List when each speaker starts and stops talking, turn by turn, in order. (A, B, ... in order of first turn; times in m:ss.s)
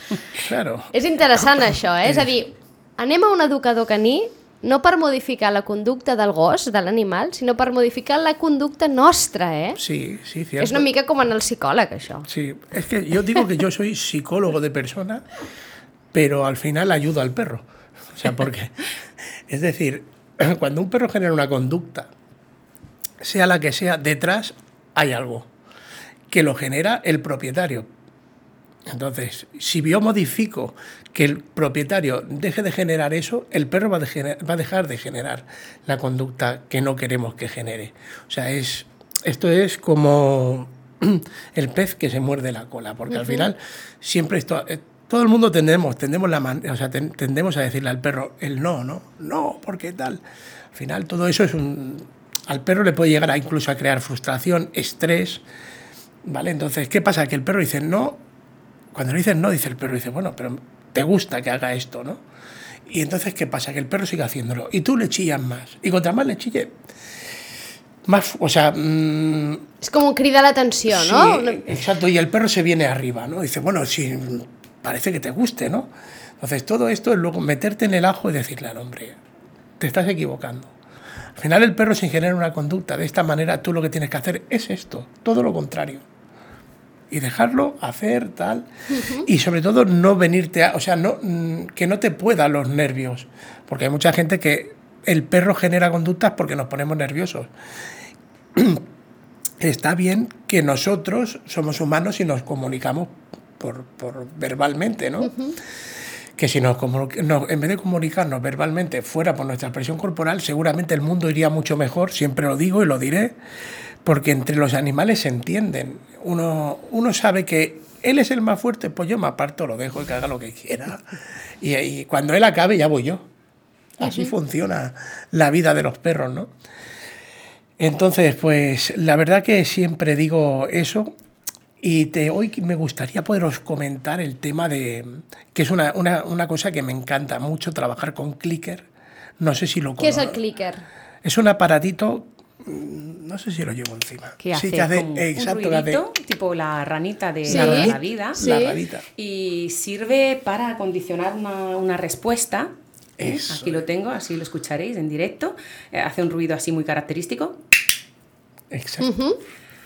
0:00.4-0:00.9 A
0:00.9-0:09.8 B
0:02.0-0:02.3 A
0:09.8-0:10.9 A
0:10.6-0:12.3 B
0:12.3-0:15.2 A
0:16.1-0:18.8 A
0:19.5-0:22.1 A
0:23.2-0:25.5 A
0:26.3-0:27.9 A
0:28.9-0:50.2 A
0:43.1-0:43.4 B
0:50.7-0:55.4 A
0:56.2-0:58.2 A
0:58.9-1:02.2 A
1:02.9-1:06.7 A
1:08.1-1:09.6 A
1:09.8-1:11.7 B
1:10.9-1:19.2 A
1:19.8-1:20.8 A
1:21.4-1:26.0 A
1:27.1-1:28.7 A
1:28.9-1:29.2 B
1:29.2-1:37.5 A
1:38.6-1:38.8 A
1:39.6-1:45.3 A
1:45.2-1:45.6 B
1:46.4-1:53.4 A
1:54.0-2:01.0 A
2:01.6-2:03.3 A
2:04.0-2:06.5 A
2:04.0-2:04.3 B
2:07.8-2:11.1 A
2:11.8-2:18.9 A
2:19.4-2:20.4 A
2:20.0-2:20.8 B
2:21.2-2:26.0 A
2:24.4-2:28.5 C
2:27.5-2:28.8 B
2:27.5-2:29.0 A
2:29.2-2:37.6 C
2:33.2-2:33.8 A
2:38.7-2:39.1 A
2:39.0-2:39.4 B